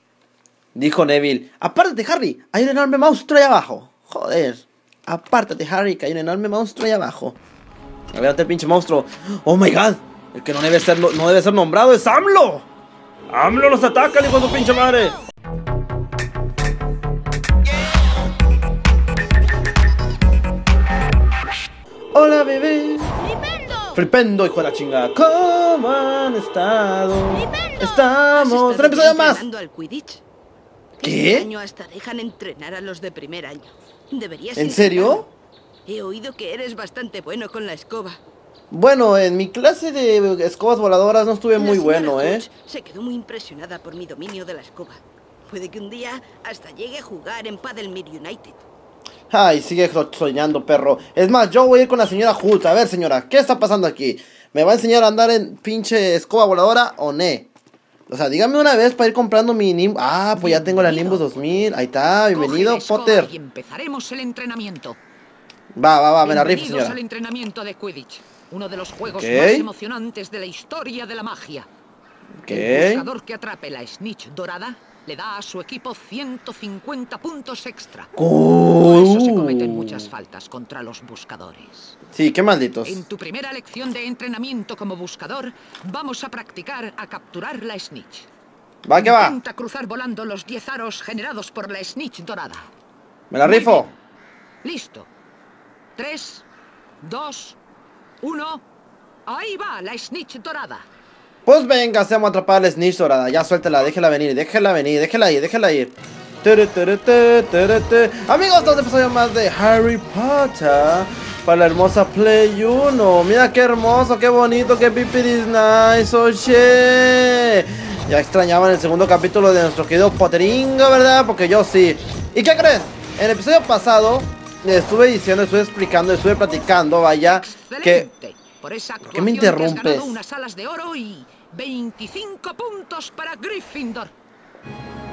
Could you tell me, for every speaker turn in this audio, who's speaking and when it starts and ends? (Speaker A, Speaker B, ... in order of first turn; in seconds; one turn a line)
Speaker A: 0.7-7.4
Speaker A: 8.1-12.7
Speaker A: 13.3-15.2
Speaker A: 22.1-23.1
Speaker B: 23.2-24.0
Speaker A: 23.9-29.4
Speaker B: 27.3-30.2
Speaker B: 31.0-35.3
Speaker A: 31.0-31.5
Speaker A: 34.5-35.3
Speaker B: 35.9-38.2
Speaker A: 38.7-42.5
Speaker B: 41.5-48.6
Speaker A: 49.3-57.5
Speaker A: 58.1-63.3
Speaker C: 60.4-61.6
Speaker C: 62.3-65.0
Speaker A: 65.8-67.0
Speaker C: 66.2-71.7
Speaker A: 69.0-69.7
Speaker A: 72.4-73.0
Speaker C: 72.5-78.1
Speaker A: 78.1-80.0
Speaker C: 78.8-82.0
Speaker A: 82.1-83.0
Speaker C: 82.8-88.3
Speaker A: 88.8-89.4
Speaker C: 89.0-92.7
Speaker A: 93.3-93.9
Speaker C: 93.4-93.9
Speaker C: 94.6-95.1
Speaker C: 96.0-96.4
Speaker C: 97.0-97.6
Speaker C: 98.2-98.6
Speaker C: 99.3-100.8
Speaker A: 101.5-128.1
Speaker C: 127.2-134.1
Speaker A: 129.0-130.2